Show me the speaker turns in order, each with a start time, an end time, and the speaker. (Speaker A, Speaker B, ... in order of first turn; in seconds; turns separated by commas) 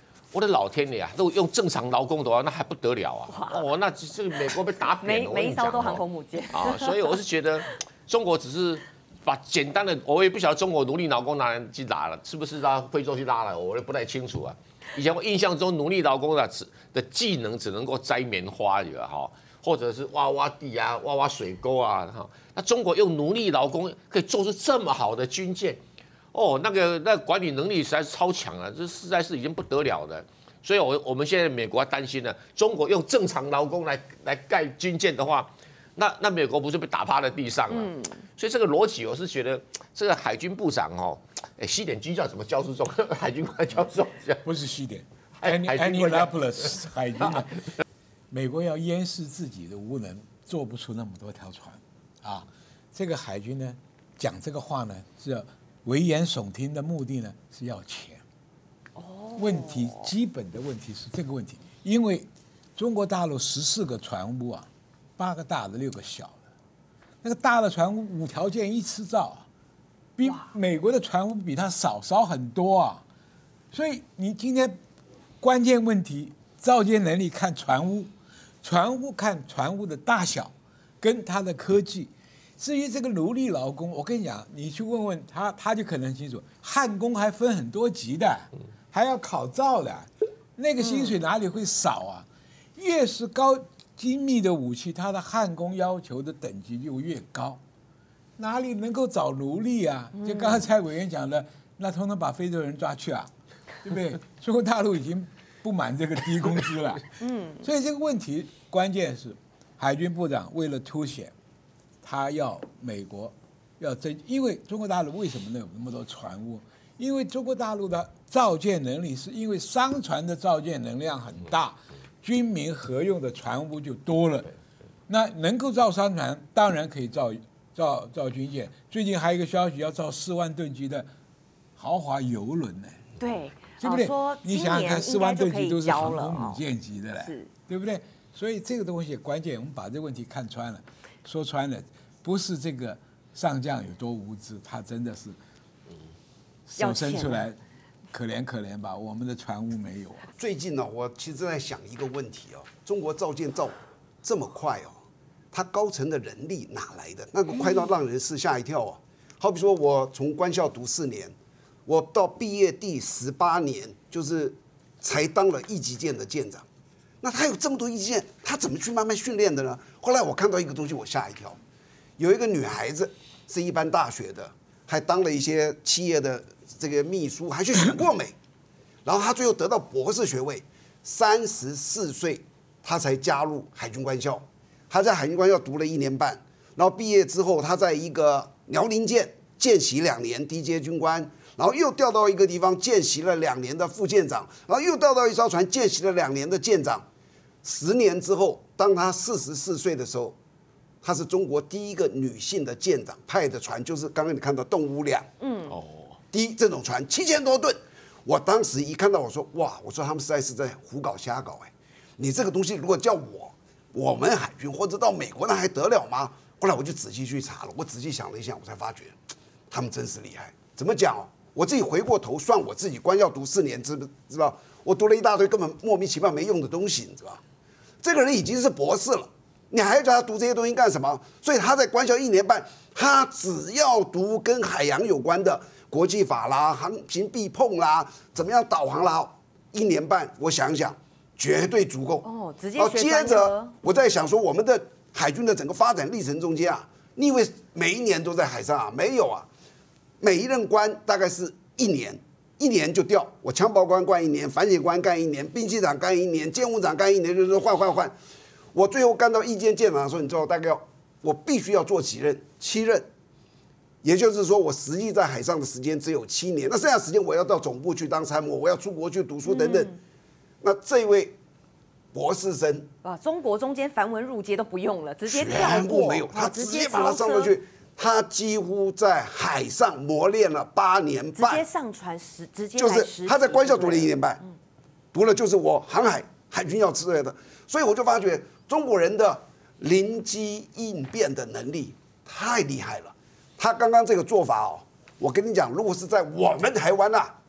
Speaker A: 0.3-25.8, Speaker B: 3.3-3.7, Speaker B: 4.9-7.2, Speaker A: 26.3-44.4, Speaker B: 37.7-38.2, Speaker C: 44.4-47.6, Speaker A: 45.4-46.3, Speaker C: 48.3-58.2, Speaker B: 59.0-60.1, Speaker C: 59.4-66.4, Speaker C: 67.2-69.5, Speaker C: 70.2-73.0, Speaker B: 70.2-70.5, Speaker C: 73.7-74.8, Speaker C: 75.4-78.1, Speaker C: 78.6-97.6, Speaker B: 90.8-91.1, Speaker C: 98.4-103.3, Speaker B: 100.1-100.7, Speaker C: 103.8-107.0, Speaker B: 107.2-107.6, Speaker C: 107.6-111.3, Speaker C: 112.0-124.5, Speaker C: 125.1-131.1, Speaker C: 131.8-133.0, Speaker B: 133.2-136.6, Speaker C: 133.8-145.4, Speaker B: 137.2-137.5, Speaker C: 146.7-147.6, Speaker B: 146.8-147.5, Speaker C: 148.1-150.2, Speaker D: 150.3-155.0, Speaker D: 155.5-161.3, Speaker D: 161.8-166.7, Speaker D: 167.2-171.6, Speaker D: 172.2-178.3, Speaker D: 179.0-197.1, Speaker D: 197.6-200.4, Speaker D: 201.0-205.3, Speaker B: 205.4-205.7, Speaker A: 205.7-206.2, Speaker D: 206.3-219.2, Speaker D: 219.7-227.4, Speaker D: 228.0-249.5, Speaker B: 242.2-243.7, Speaker D: 250.2-258.1, Speaker D: 258.7-263.1, Speaker D: 264.0-269.9, Speaker B: 269.4-270.0, Speaker D: 270.6-271.4, Speaker D: 272.1-272.9, Speaker B: 273.0-277.5, Speaker D: 275.2-281.6, Speaker B: 281.3-284.1, Speaker D: 282.8-284.4, Speaker D: 285.1-297.3